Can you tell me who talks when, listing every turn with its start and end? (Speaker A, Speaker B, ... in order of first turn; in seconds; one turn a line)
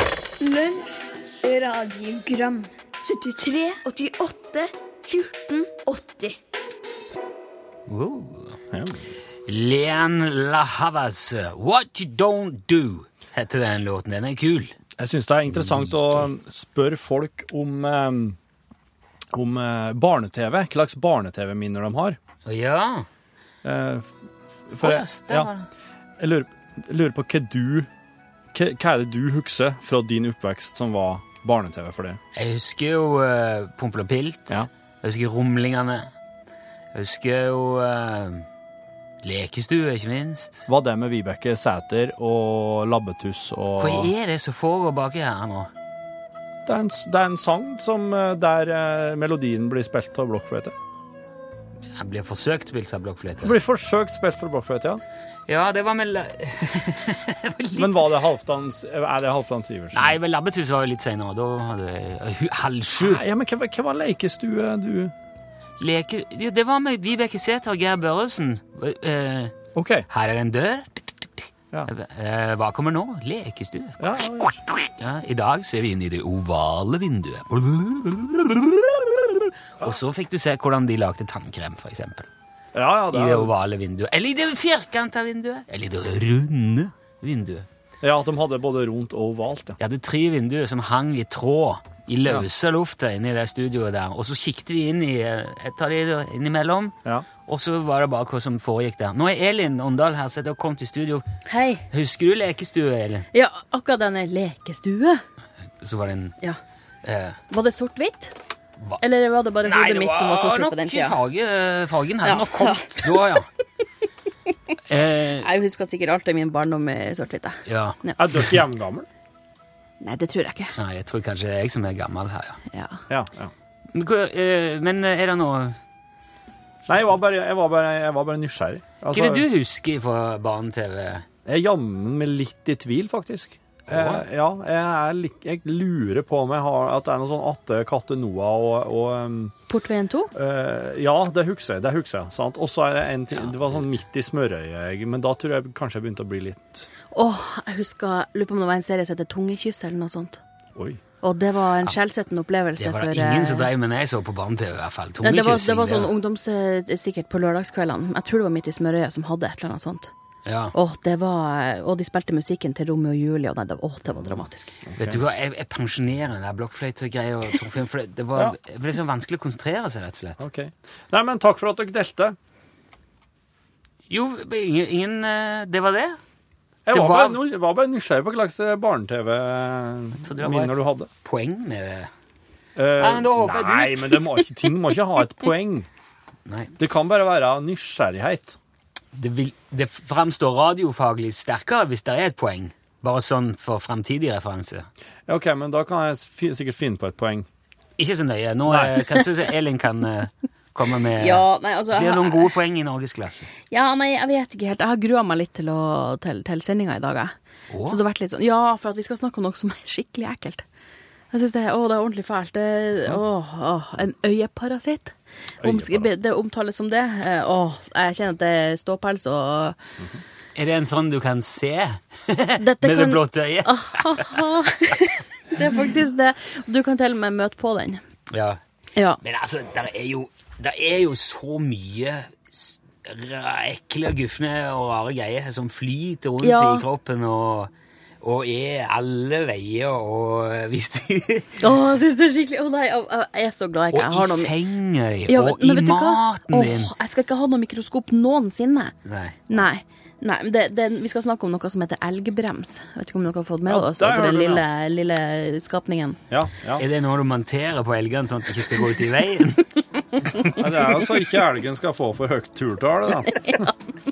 Speaker A: 0.4-6.4
Speaker B: 7.9-8.6
Speaker C: 8.7-9.1
Speaker B: 9.5-14.8
Speaker C: 15.0-18.4
Speaker B: 15.6-16.2
Speaker C: 19.3-22.2
Speaker B: 22.4-23.1
Speaker C: 23.6-24.1
Speaker C: 24.7-25.5
Speaker B: 24.8-25.7
Speaker C: 26.2-27.9
Speaker C: 28.5-32.2
Speaker B: 32.4-36.1
Speaker B: 36.9-38.5
Speaker B: 39.2-40.7
Speaker C: 40.7-44.1
Speaker B: 43.8-45.7
Speaker C: 46.7-50.8
Speaker B: 51.9-53.5
Speaker C: 53.4-55.0
Speaker B: 55.5-58.1
Speaker C: 57.8-60.2
Speaker B: 59.9-63.2
Speaker C: 62.9-65.1
Speaker B: 65.8-69.5
Speaker C: 69.8-70.1
Speaker B: 70.1-74.0
Speaker C: 74.0-74.6
Speaker B: 74.9-82.3
Speaker C: 82.7-83.5
Speaker B: 83.1-87.7
Speaker C: 88.0-89.8
Speaker B: 89.8-97.0
Speaker B: 97.5-101.3
Speaker D: 101.5-101.8
Speaker B: 101.9-103.3
Speaker D: 103.3-105.2
Speaker B: 105.8-106.3
Speaker B: 107.0-107.4
Speaker D: 107.5-108.3
Speaker D: 109.0-111.2
Speaker B: 109.6-113.5
Speaker D: 112.2-113.4
Speaker B: 114.9-115.5
Speaker D: 115.4-118.2
Speaker B: 117.7-118.0
Speaker C: 118.2-119.1
Speaker D: 120.0-120.7
Speaker B: 120.8-122.6
Speaker D: 122.7-123.0
Speaker C: 123.1-123.5
Speaker B: 123.9-125.8
Speaker C: 126.9-129.5
Speaker B: 129.1-131.2
Speaker C: 131.5-139.6
Speaker B: 133.9-134.2
Speaker D: 139.7-140.3
Speaker C: 140.3-146.9
Speaker B: 143.3-143.8
Speaker D: 147.1-150.4
Speaker C: 150.8-151.0
Speaker D: 151.2-153.7
Speaker B: 152.8-156.1
Speaker D: 155.2-160.1
Speaker B: 160.4-160.8
Speaker D: 160.7-164.7
Speaker C: 164.9-165.2
Speaker B: 165.0-170.4
Speaker C: 170.4-172.4
Speaker B: 174.1-176.2
Speaker C: 176.9-181.1
Speaker B: 176.9-177.4
Speaker B: 180.2-182.1
Speaker C: 182.8-185.9
Speaker B: 183.0-184.5
Speaker B: 186.5-186.7
Speaker C: 186.8-188.6
Speaker B: 189.1-194.9
Speaker C: 195.3-197.5
Speaker B: 198.0-203.5
Speaker C: 198.7-198.9
Speaker D: 201.2-202.5
Speaker D: 203.7-210.6
Speaker B: 207.7-208.0
Speaker D: 211.3-219.8
Speaker C: 215.6-216.1
Speaker B: 220.6-224.4
Speaker D: 222.6-228.0
Speaker B: 228.3-228.6
Speaker B: 229.2-237.7
Speaker D: 236.4-236.9
Speaker B: 238.2-241.6
Speaker D: 241.6-244.5
Speaker B: 243.9-246.9
Speaker D: 245.3-248.9
Speaker B: 249.1-249.6
Speaker D: 249.5-256.2
Speaker C: 253.7-254.6
Speaker C: 256.3-256.8
Speaker B: 256.8-259.7
Speaker C: 260.6-263.6
Speaker D: 263.4-263.7